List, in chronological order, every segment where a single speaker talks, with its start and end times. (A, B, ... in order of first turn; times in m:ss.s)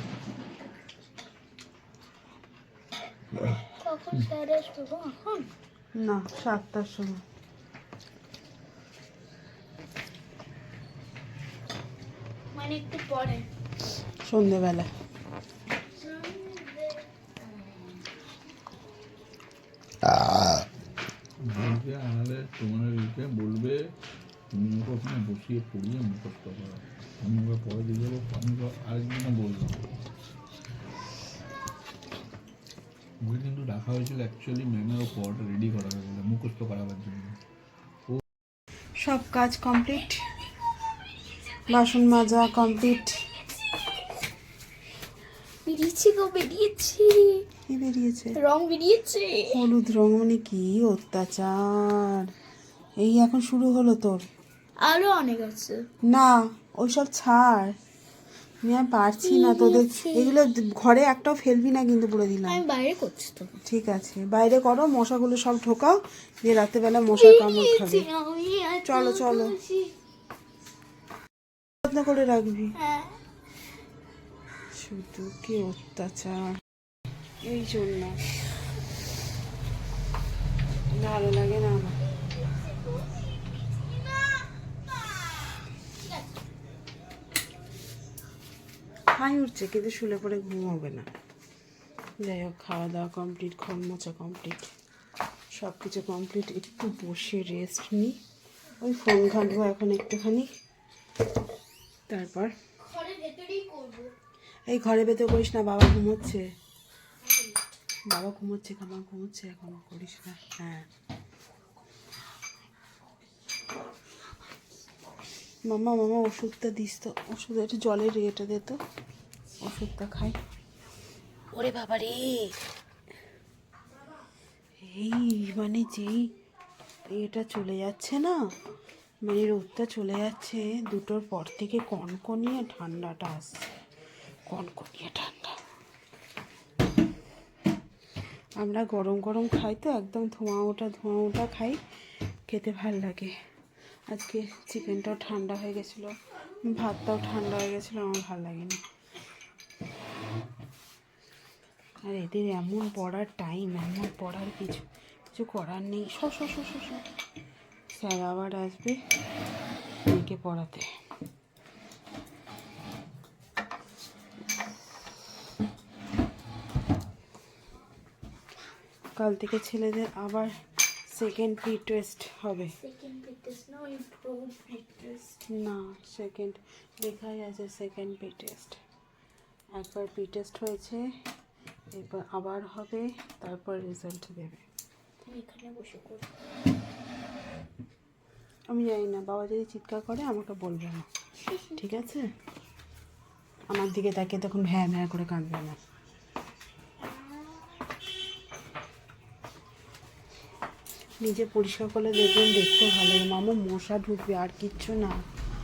0:03.8-0:05.5 A
0:06.0-0:07.2 B
0:12.5-0:13.5 A
0:14.2-0:14.9 B
0:16.0-0:17.0 A
0:21.5-0:23.8 C
0:24.5-0:29.8 C
0:33.2-0:37.3 C
0:39.0-0:40.2 B
0:41.7-0:43.2 B
0:45.6-0:47.4 A
0:47.7-0:48.4 B
0:48.4-0:49.4 A
0:49.5-0:52.3 B
0:53.0-0:54.2 B
0:54.8-0:55.8 A
0:56.1-0:57.8 B
0:58.6-1:02.6 B
0:59.2-1:00.3 A
1:02.5-1:03.5 A
1:03.6-1:08.0 B
1:07.1-1:09.9 A
1:08.8-1:09.6 B
1:11.8-1:12.7 B
1:12.8-1:13.1 A
1:14.8-1:16.4 B
1:17.4-1:18.2 B
1:21.0-1:22.0 B
1:29.1-1:31.1 B
1:32.2-1:34.7 B
1:35.5-1:38.1 B
1:38.8-1:40.5 B
1:42.1-1:42.5 B
1:42.8-1:44.1 A
1:44.7-1:46.4 B
1:48.1-1:50.9 B
1:55.6-1:58.8 B
1:59.6-2:00.4 B
2:01.5-2:02.5 B
2:04.8-2:06.3 B
2:07.1-2:08.4 B
2:09.2-2:13.7 B
2:14.5-2:15.6 B
2:18.6-2:21.8 B
2:22.5-2:23.3 B
2:24.1-2:26.1 B
2:26.7-2:28.8 B
2:32.1-2:37.0 B
2:38.0-2:39.0 B
2:40.1-2:40.9 B
2:49.2-2:50.5 B
2:51.1-2:52.7 B
2:52.8-2:55.4 A
2:55.5-2:58.8 B
2:59.8-3:01.0 B
3:01.9-3:04.6 B
3:05.2-3:06.3 A
3:08.7-3:11.1 B
3:11.5-3:11.7 A
3:11.8-3:12.3 B
3:13.7-3:15.8 B
3:21.2-3:25.2 B